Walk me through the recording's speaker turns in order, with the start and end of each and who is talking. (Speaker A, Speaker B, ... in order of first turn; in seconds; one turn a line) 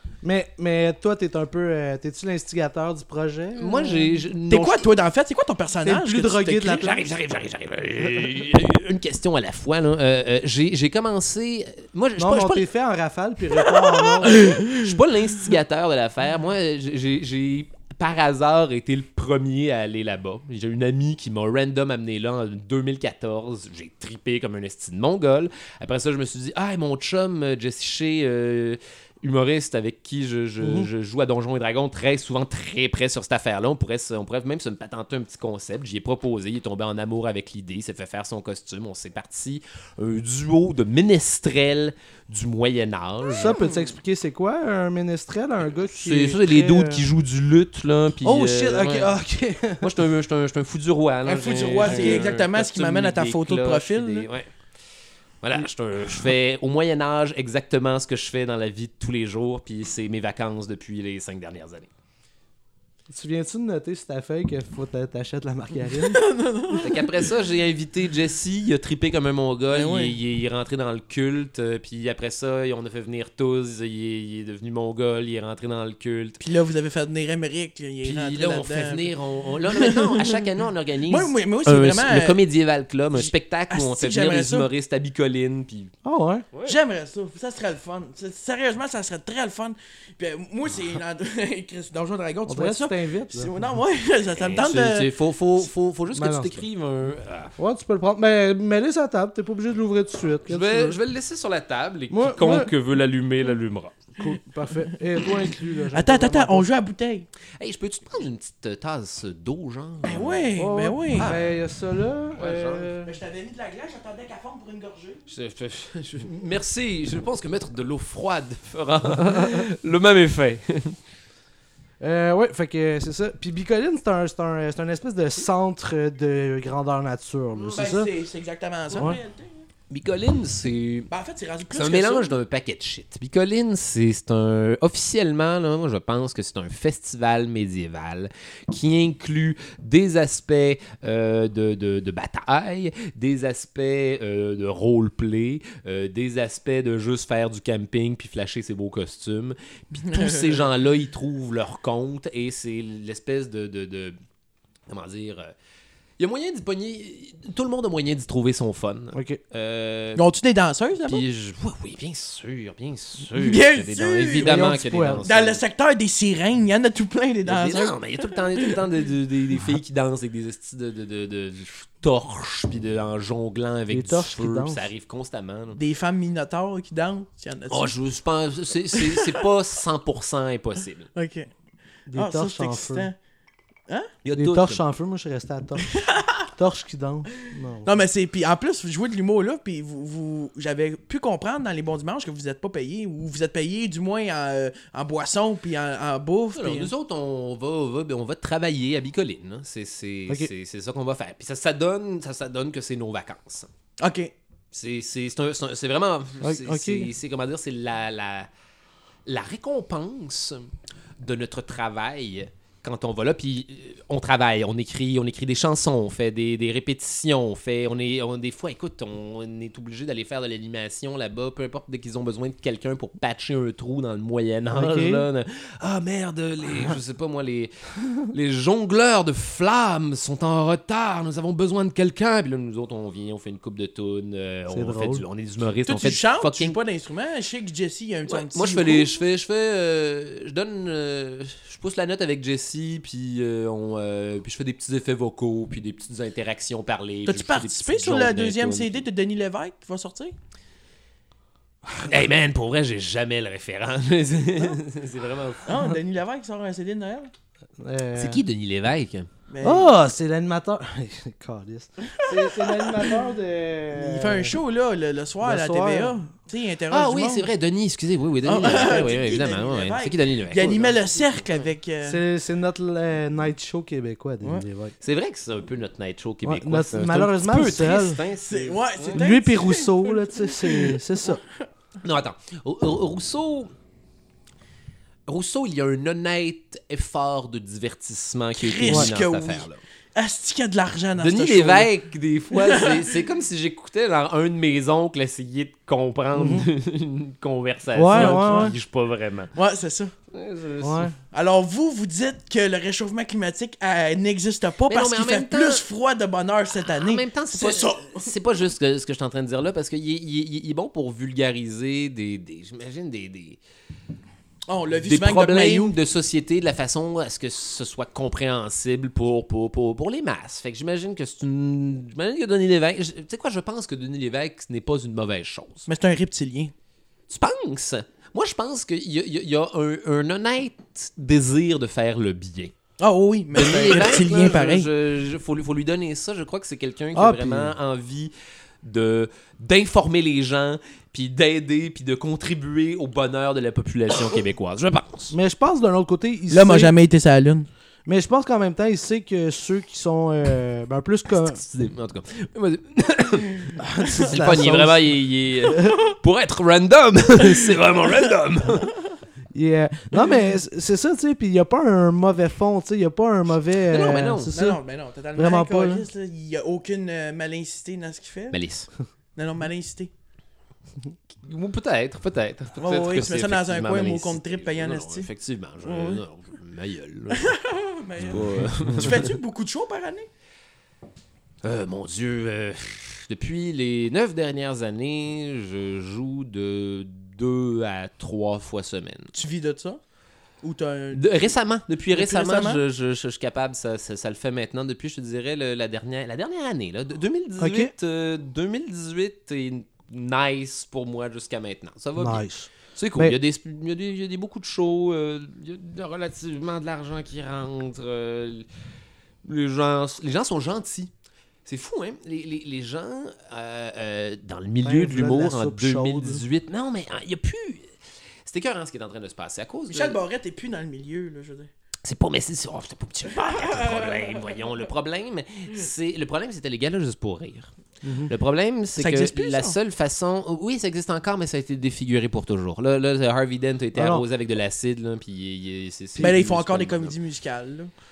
Speaker A: 0.2-4.2
Speaker B: 3.6-4.9
Speaker C: 4.5-7.0
Speaker A: 5.8-7.0
Speaker B: 6.7-12.7
Speaker A: 12.2-14.6
Speaker C: 14.2-14.9
Speaker B: 14.3-43.6
Speaker A: 30.6-30.9
Speaker A: 43.3-47.1
Speaker C: 43.5-43.9
Speaker B: 45.9-49.1
Speaker A: 48.2-49.9
Speaker B: 49.8-54.5
Speaker C: 51.2-54.3
Speaker A: 51.8-52.3
Speaker B: 55.4-61.9
Speaker A: 63.1-66.2
Speaker C: 66.0-67.2
Speaker B: 66.7-76.4
Speaker C: 69.7-70.2
Speaker C: 76.4-79.1
Speaker B: 78.0-85.9
Speaker C: 79.7-80.5
Speaker C: 81.1-82.4
Speaker C: 83.1-84.7
Speaker A: 86.0-86.5
Speaker C: 86.7-95.1
Speaker A: 92.5-93.5
Speaker B: 94.3-97.5
Speaker A: 96.1-96.7
Speaker A: 97.6-101.0
Speaker B: 100.5-104.0
Speaker A: 102.1-102.7
Speaker A: 104.2-106.7
Speaker C: 105.9-107.3
Speaker B: 107.6-110.5
Speaker C: 110.0-111.4
Speaker A: 110.6-113.2
Speaker B: 111.1-111.5
Speaker B: 112.4-112.9
Speaker C: 113.0-115.2
Speaker B: 115.3-121.0
Speaker A: 122.0-128.1
Speaker C: 127.6-129.7
Speaker B: 129.9-131.1
Speaker C: 131.1-132.4
Speaker B: 131.7-154.2
Speaker C: 150.0-150.6
Speaker B: 154.9-155.5
Speaker B: 156.2-160.2
Speaker A: 159.1-159.4
Speaker C: 160.2-161.2
Speaker B: 161.1-165.6
Speaker C: 163.3-168.8
Speaker A: 164.4-165.2
Speaker B: 167.4-175.8
Speaker A: 173.9-174.9
Speaker C: 175.8-177.9
Speaker B: 177.7-181.1
Speaker C: 178.9-179.4
Speaker C: 181.2-181.5
Speaker A: 182.1-183.1
Speaker C: 182.1-183.2
Speaker B: 184.2-184.8
Speaker A: 184.4-185.9
Speaker C: 185.9-186.3
Speaker A: 186.5-188.0
Speaker C: 187.8-196.9
Speaker B: 196.5-203.7
Speaker C: 204.0-204.3
Speaker B: 204.7-208.5
Speaker A: 206.4-207.1
Speaker B: 209.3-210.7
Speaker B: 211.2-236.8
Speaker A: 224.7-225.2
Speaker A: 234.7-235.2
Speaker C: 235.9-239.1
Speaker B: 238.3-249.0
Speaker C: 247.3-250.3
Speaker B: 252.0-255.7
Speaker C: 255.7-257.3
Speaker A: 257.8-258.4
Speaker B: 258.2-259.3
Speaker C: 259.5-259.9
Speaker A: 259.6-264.6
Speaker C: 262.1-263.2
Speaker C: 263.9-267.5
Speaker A: 265.4-266.2
Speaker B: 266.9-271.0
Speaker C: 268.4-272.2
Speaker A: 272.0-274.9
Speaker B: 275.0-279.2
Speaker A: 276.4-278.2
Speaker C: 278.5-281.0
Speaker A: 279.1-281.4
Speaker B: 282.0-283.7
Speaker B: 285.3-289.8
Speaker C: 288.6-291.9
Speaker B: 291.2-299.5
Speaker C: 292.5-293.2
Speaker A: 296.4-296.7
Speaker A: 297.9-298.7
Speaker C: 298.1-298.7
Speaker C: 299.5-300.1
Speaker B: 300.3-301.1
Speaker A: 300.8-301.1
Speaker C: 301.3-308.3
Speaker B: 304.9-305.9
Speaker B: 306.8-313.6
Speaker C: 314.7-315.9
Speaker B: 314.9-325.9
Speaker C: 325.9-326.7
Speaker B: 327.3-332.7
Speaker C: 333.0-334.9
Speaker B: 333.5-345.4
Speaker A: 337.1-337.8
Speaker A: 345.3-346.9
Speaker C: 346.5-347.7
Speaker A: 348.1-351.6
Speaker B: 351.3-358.9
Speaker A: 353.8-355.2
Speaker A: 359.5-364.8
Speaker B: 363.8-364.5
Speaker C: 364.5-368.6
Speaker A: 365.4-366.1
Speaker B: 368.5-368.9
Speaker C: 369.4-370.1
Speaker B: 371.4-377.6
Speaker C: 372.8-375.3
Speaker C: 375.8-376.2
Speaker C: 377.3-380.3
Speaker B: 378.2-379.3
Speaker B: 381.6-389.3
Speaker C: 389.3-390.0
Speaker C: 390.6-391.6
Speaker B: 391.1-408.7
Speaker C: 392.1-392.8
Speaker A: 397.6-397.9
Speaker A: 402.2-403.4
Speaker B: 409.4-411.1
Speaker B: 411.6-417.9
Speaker A: 414.8-416.4
Speaker B: 418.5-420.2
Speaker C: 419.9-421.7
Speaker B: 422.0-427.7
Speaker C: 423.4-424.6
Speaker A: 428.0-428.3
Speaker B: 428.3-437.1
Speaker C: 429.0-429.8
Speaker A: 433.9-434.2
Speaker C: 436.2-437.9